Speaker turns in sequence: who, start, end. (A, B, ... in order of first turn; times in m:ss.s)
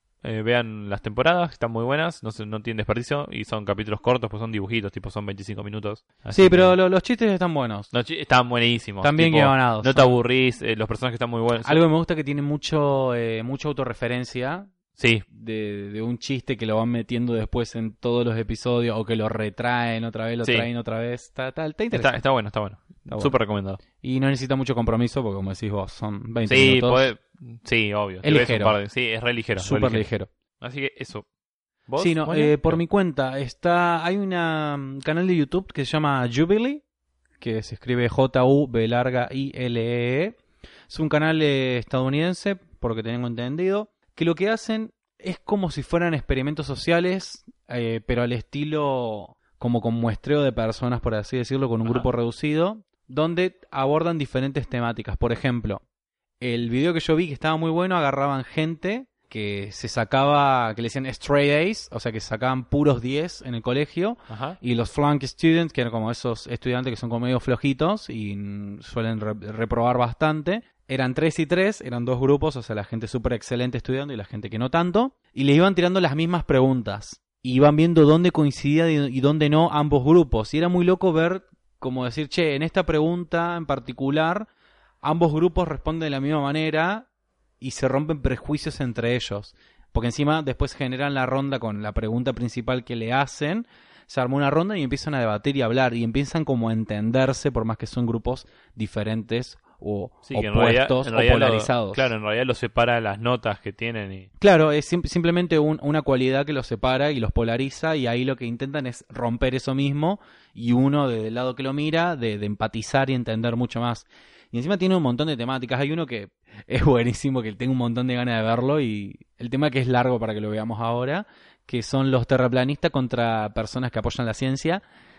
0:00.2-0:06.7 A
0:06.3-0:07.9 B
0:07.9-0:11.8 A
0:09.0-0:10.2 B
0:11.6-0:14.7 B
0:15.0-0:15.2 A
0:15.3-0:22.2 B
0:20.4-0:20.7 A
0:21.9-0:23.8 A
0:23.1-0:23.4 B
0:24.0-0:27.1 B
0:26.5-0:30.1 A
0:28.2-0:28.8 B
0:29.6-0:30.3 B
0:30.6-0:31.2 A
0:31.9-0:32.8 A
0:32.0-0:36.8 B
0:37.4-0:40.4 B
0:40.9-0:55.8 B
0:51.8-0:52.1 A
0:56.4-1:24.5 B
1:04.3-1:04.6 A
1:25.0-1:27.1 B
1:27.6-1:42.1 B
1:40.2-1:44.3 A
1:44.4-2:04.8 B